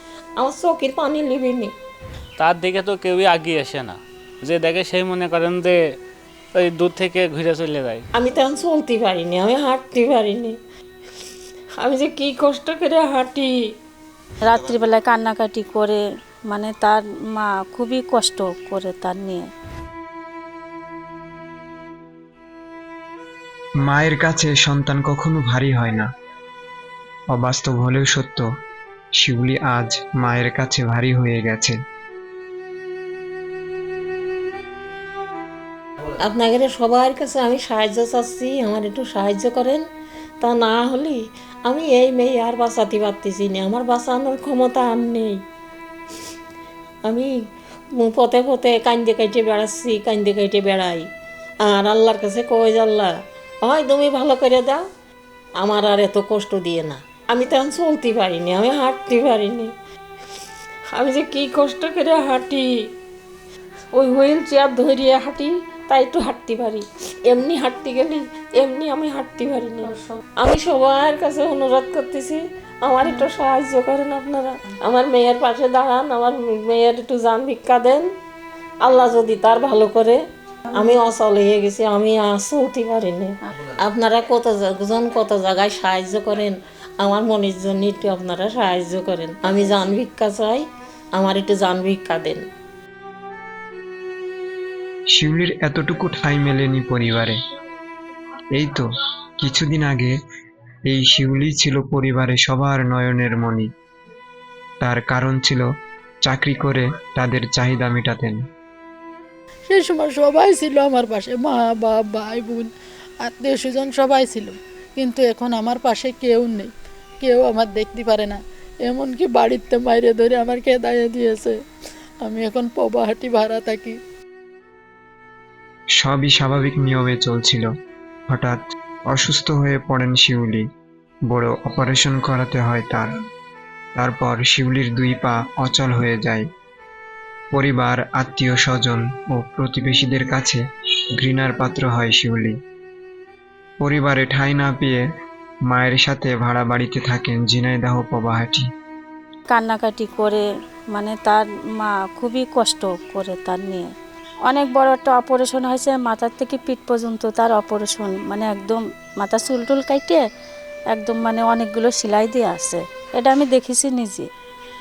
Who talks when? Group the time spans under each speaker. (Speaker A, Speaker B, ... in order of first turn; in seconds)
Speaker A: 0.4-1.7, 8.2-10.6, 11.8-13.5, 36.2-39.8, 40.4-45.4, 47.0-47.3, 47.9-51.1, 51.6-54.9, 55.6-59.7, 60.9-62.9, 63.9-78.1, 78.8-92.4
Speaker B: 2.4-5.8, 6.5-8.0
Speaker C: 14.5-16.0, 16.5-19.5, 149.5-153.9, 154.5-160.2, 160.9-164.3
Speaker D: 23.8-26.1, 27.3-28.5, 29.2-31.8, 95.1-97.4, 98.5-98.8, 99.4-100.2, 100.9-103.7, 104.8-105.7, 106.2-108.4, 126.0-127.7, 128.3-130.7, 131.3-133.1, 134.0-136.5, 137.5-140.6, 141.2-142.6, 143.8-145.0, 145.7-148.7
Speaker E: 109.7-112.7, 113.2-116.7, 117.2-121.6, 122.2-124.0